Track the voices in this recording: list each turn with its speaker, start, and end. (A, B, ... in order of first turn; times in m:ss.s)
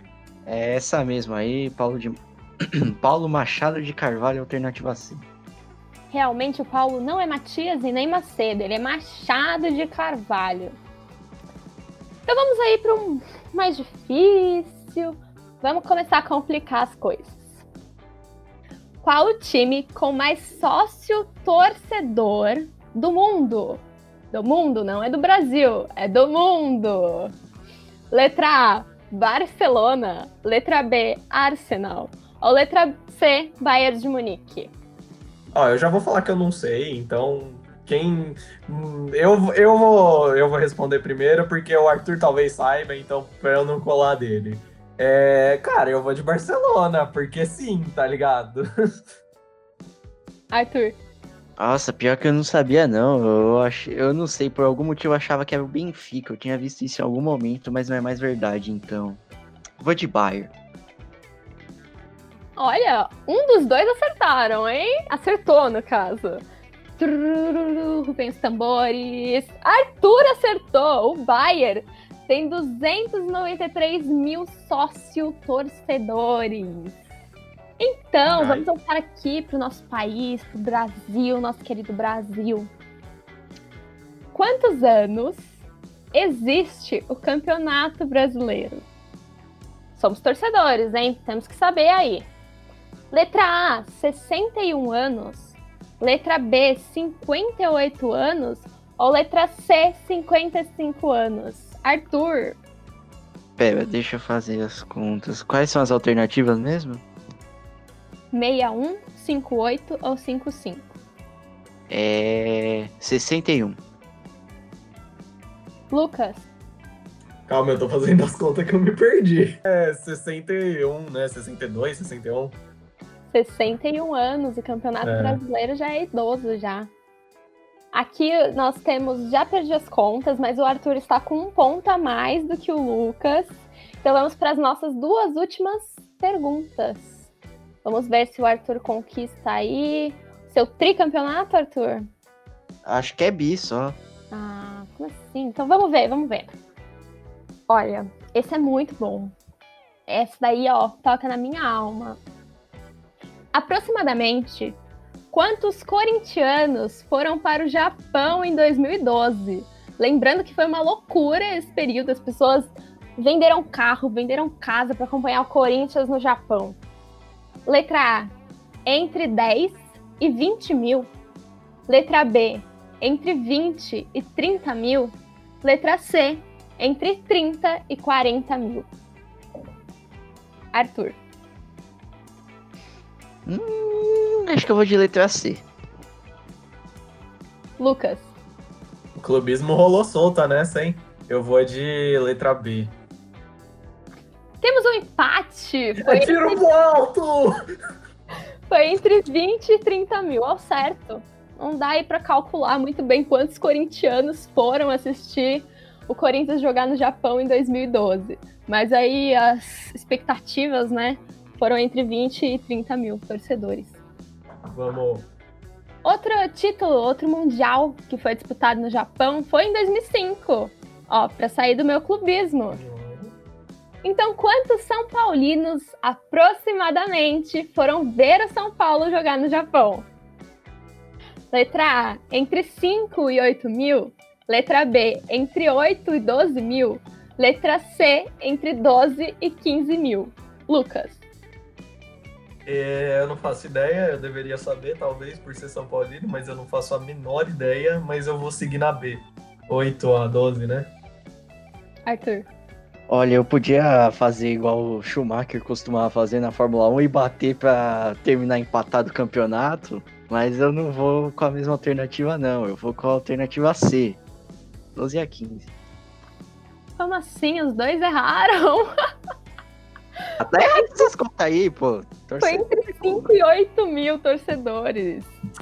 0:00.4-0:05.2 A
0:06.1-0:10.8 B
0:12.3-0:17.6 B
0:19.0-0:27.3 B
0:28.1-0:34.7 B
0:35.5-0:48.6 C
0:50.5-0:51.0 B
0:51.6-0:59.2 A
0:59.8-1:00.5 A
1:02.6-1:06.4 B
1:07.0-1:17.0 B
1:17.8-1:22.7 B
1:18.2-1:18.7 C
1:24.3-1:25.5 B
1:26.1-1:28.8 B
1:30.0-1:32.3 B
1:33.1-1:42.6 B
1:43.6-1:47.0 A
1:48.3-1:50.9 B
1:51.9-1:53.8 A
1:55.9-1:56.5 B
1:57.5-2:02.6 C
2:03.3-2:06.9 B
2:05.0-2:05.4 C
2:07.9-2:17.3 B
2:17.8-2:22.1 B
2:22.8-2:24.0 A
2:24.3-2:26.5 B
2:27.7-2:29.3 B
2:30.1-2:32.2 B
2:33.5-2:34.8 B
2:35.3-2:46.8 B
2:47.6-2:48.3 B
2:48.8-2:51.1 B
2:51.9-2:58.9 B
3:00.7-3:01.2 B
3:03.4-3:05.6 A
3:07.8-3:08.3 B
3:09.2-3:12.9 C
3:14.6-3:16.7 B
3:16.0-3:17.6 C
3:18.7-3:34.0 B
3:34.7-3:35.3 C
3:36.0-3:42.8 B
3:42.7-3:43.3 C
3:44.0-3:50.1 B
3:51.5-4:01.2 B
4:02.6-4:10.9 C
4:12.1-4:12.5 B
4:13.1-4:24.2 A
4:24.9-4:25.7 A
4:27.0-4:28.9 B
4:30.4-4:33.3 A
4:32.4-4:35.3 B